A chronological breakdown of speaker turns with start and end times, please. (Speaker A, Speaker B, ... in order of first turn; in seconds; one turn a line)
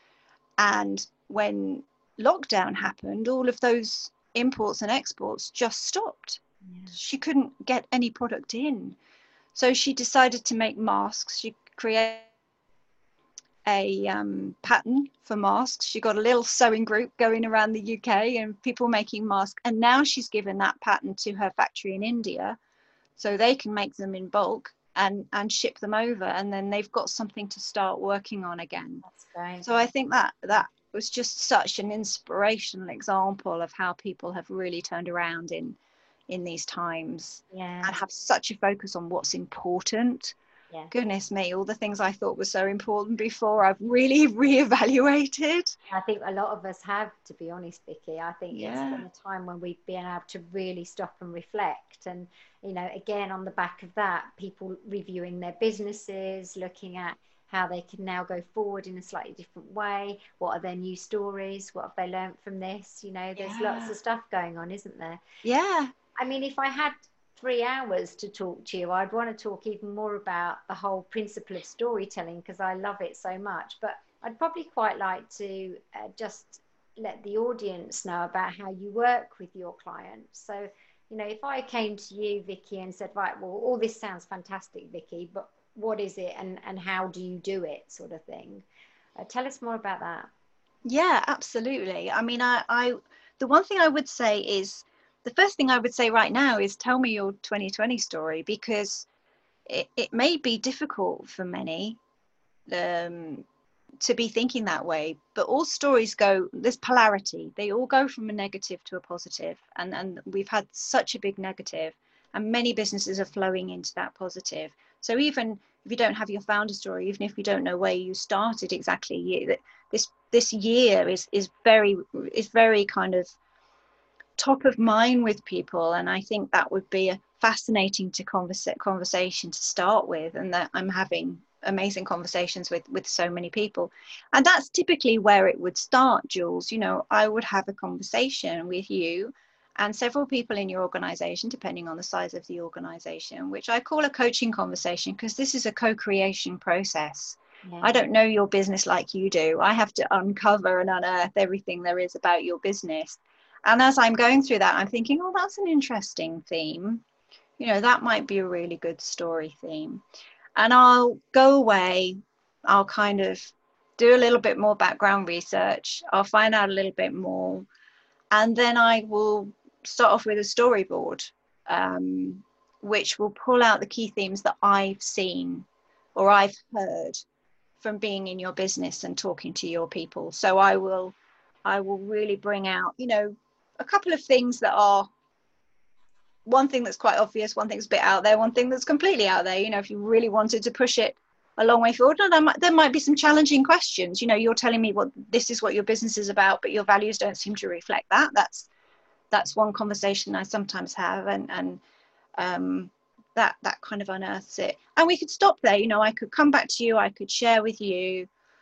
Speaker A: 0.6-9.0
Speaker B: 6.7-7.0
Speaker A: 9.6-12.3
Speaker A: 13.7-22.6
Speaker A: 23.2-29.0
Speaker B: 29.1-29.9
Speaker A: 29.6-35.8
Speaker A: 36.3-40.4
Speaker B: 37.5-38.0
Speaker A: 40.9-45.8
Speaker B: 45.9-65.2
Speaker A: 48.5-49.0
Speaker A: 63.4-64.0
Speaker A: 65.4-65.9
Speaker B: 66.2-88.7
Speaker B: 89.2-90.3
Speaker A: 90.8-99.1
Speaker A: 99.7-102.0
Speaker A: 102.7-103.5
Speaker A: 104.0-123.4
Speaker A: 124.4-157.0
Speaker B: 147.7-147.9
Speaker A: 157.6-160.0
Speaker A: 160.6-167.7
Speaker A: 168.3-177.2
Speaker A: 177.8-185.1
Speaker A: 186.4-198.7
Speaker A: 199.3-201.8
Speaker A: 202.4-208.3